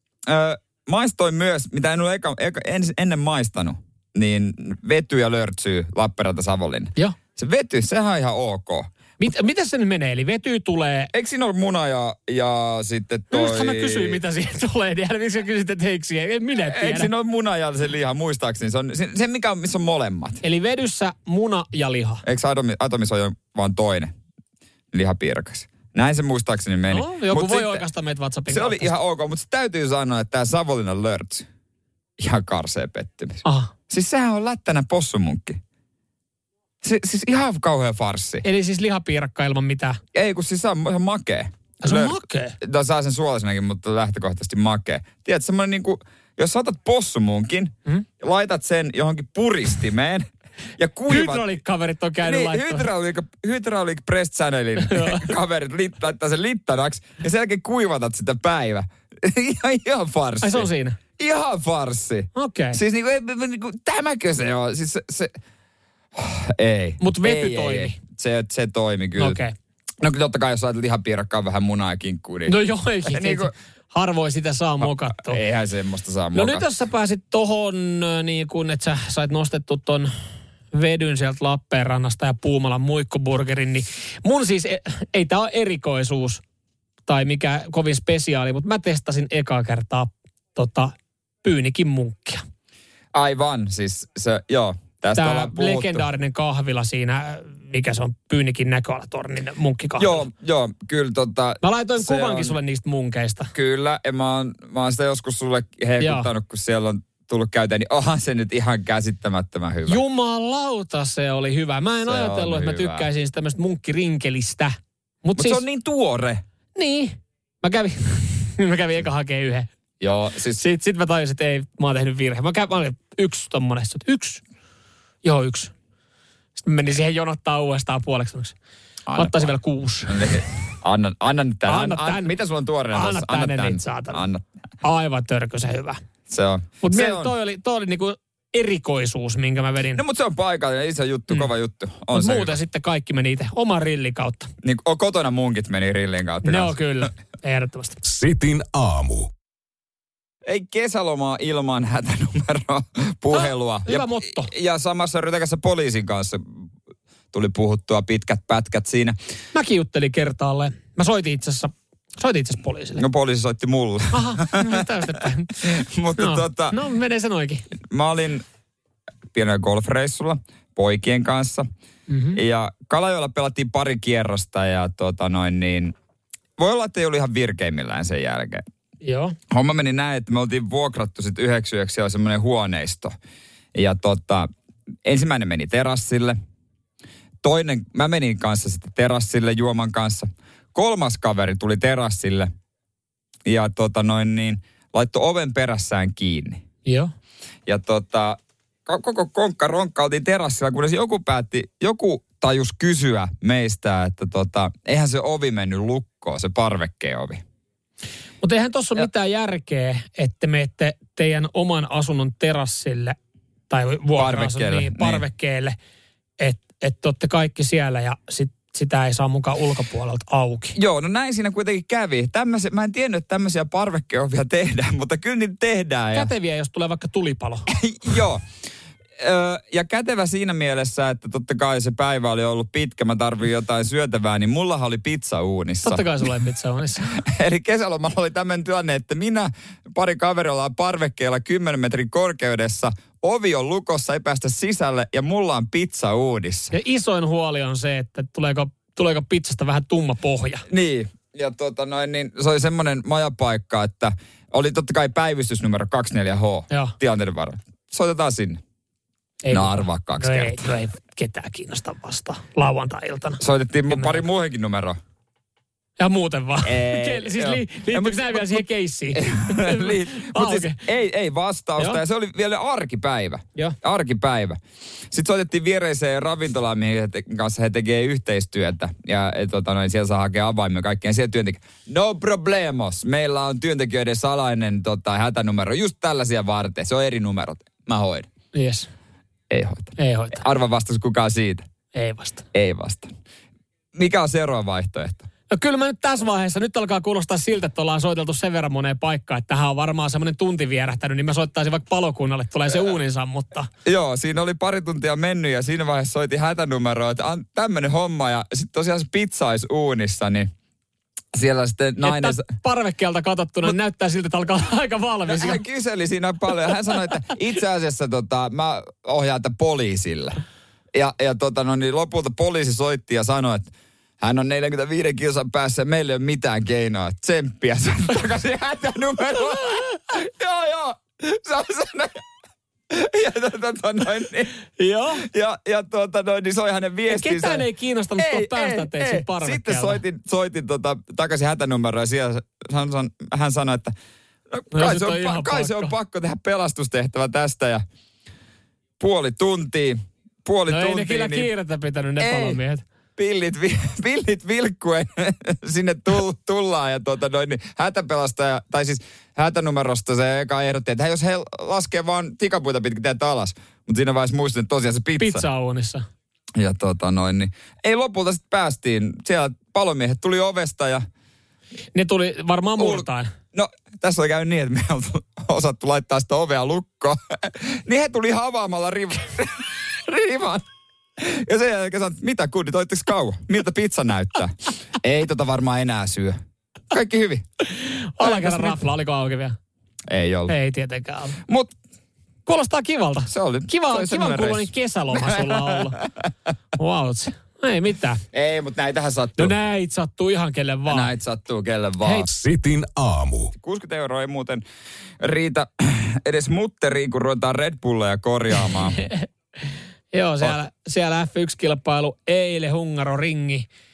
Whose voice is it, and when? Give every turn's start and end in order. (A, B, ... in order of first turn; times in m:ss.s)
0:00.3-0:08.9 A
0:09.2-0:11.1 B
0:11.1-0:14.2 A
0:13.3-0:17.1 B
0:16.6-0:20.4 A
0:20.4-0:22.2 B
0:22.2-0:24.1 A
0:24.9-0:27.8 A
0:26.9-0:28.9 B
0:28.5-0:31.5 A
0:32.2-0:35.6 A
0:33.4-0:33.7 B
0:36.8-0:38.4 A
0:38.4-0:40.0 B
0:40.1-0:50.3 A
0:41.8-0:42.6 B
0:50.8-0:51.5 A
0:51.1-0:52.9 B
0:52.2-1:05.4 A
0:54.8-0:55.3 B
1:00.4-1:01.0 B
1:02.4-1:02.8 B
1:06.1-1:09.4 A
1:07.0-1:08.0 B
1:09.2-1:09.6 B
1:10.0-1:13.5 A
1:12.5-1:15.4 B
1:14.8-1:16.6 A
1:16.3-1:20.1 B
1:20.7-1:26.4 B
1:27.1-1:32.4 B
1:33.1-1:36.0 A
1:35.2-1:40.2 B
1:40.0-1:42.6 A
1:41.6-1:43.5 B
1:43.5-1:50.0 A
1:46.0-1:46.3 B
1:49.9-1:55.6 B
1:52.0-1:53.1 A
1:55.4-1:56.4 A
1:56.8-1:59.7 B
2:00.0-2:00.6 A
2:00.6-2:04.4 B
2:05.2-2:05.7 B
2:06.6-2:08.6 B
2:09.1-2:09.5 A
2:09.2-2:10.4 B
2:10.1-2:14.4 A
2:11.7-2:12.3 B
2:12.9-2:14.2 B
2:14.8-2:16.0 B
2:16.3-2:17.3 A
2:16.8-2:20.0 B
2:20.0-2:22.6 A
2:22.1-2:24.5 B
2:24.6-2:26.8 A
2:26.4-2:28.0 B
2:28.0-2:29.3 C
2:30.4-2:36.7 A
2:33.3-2:34.5 B
2:37.3-2:39.2 A
2:39.5-2:43.0 B
2:43.0-2:45.0 A
2:44.1-2:45.6 B
2:45.6-2:46.8 A
2:46.2-2:47.7 B
2:47.9-2:48.4 A
2:49.3-2:51.7 A
2:52.1-2:52.4 B
2:52.4-2:56.0 A
2:56.6-2:58.6 A
2:59.0-2:59.4 B
2:59.5-3:03.2 A
3:03.7-3:04.5 A
3:05.0-3:06.4 A
3:07.4-3:12.5 A
3:13.5-3:16.6 A
3:16.8-3:17.1 B
3:17.7-3:27.4 A
3:28.4-3:33.2 B
3:33.7-3:35.8 B
3:34.2-3:35.2 A
3:36.4-3:40.8 B
3:40.8-3:46.3 A
3:46.1-3:47.7 B
3:47.7-3:48.4 A
3:49.2-3:56.2 A
3:55.8-3:57.2 B
3:57.1-4:06.7 A
4:06.7-4:10.7 B
4:10.7-4:18.6 A
4:16.7-4:17.0 B
4:19.4-4:24.2 B
4:19.5-4:20.7 A
4:23.4-4:25.0 A
4:26.0-4:30.8 B
4:26.6-4:34.6 A
4:35.1-4:48.3 A
4:48.5-4:48.9 B
4:49.5-4:51.6 A
4:50.0-4:50.4 B
4:51.9-4:52.4 B
4:52.5-4:53.1 A
4:53.9-4:55.3 A
4:55.5-5:03.7 B
5:03.8-5:10.5 A
5:11.3-5:12.4 A
5:12.0-5:15.6 B
5:15.3-5:20.4 A
5:20.9-5:32.2 A
5:29.8-5:30.0 B
5:32.9-5:34.5 A
5:34.8-5:35.2 B
5:35.2-5:37.7 A
5:37.1-5:40.0 B
5:38.2-5:43.9 A
5:44.5-5:47.8 A
5:44.7-5:45.9 B
5:49.0-5:51.5 A
5:50.7-5:52.8 B
5:52.2-5:52.6 A
5:53.2-6:05.5 A
6:05.2-6:06.1 B
6:06.6-6:11.0 A
6:12.0-6:13.3 B
6:12.8-6:26.4 A
6:26.9-6:27.4 A
6:27.6-6:29.6 B
6:28.2-6:28.8 A
6:30.1-6:30.5 A
6:30.5-6:31.4 B
6:31.4-6:31.7 A
6:32.5-6:36.0 B
6:33.3-6:36.3 A
6:36.8-6:38.2 B
6:38.3-6:39.6 A
6:39.4-6:41.1 B
6:40.9-6:42.3 A
6:42.0-6:42.3 B
6:42.3-6:43.5 C
6:43.6-6:44.6 A
6:45.2-6:49.0 A
6:48.7-6:49.2 B
6:50.1-6:53.7 B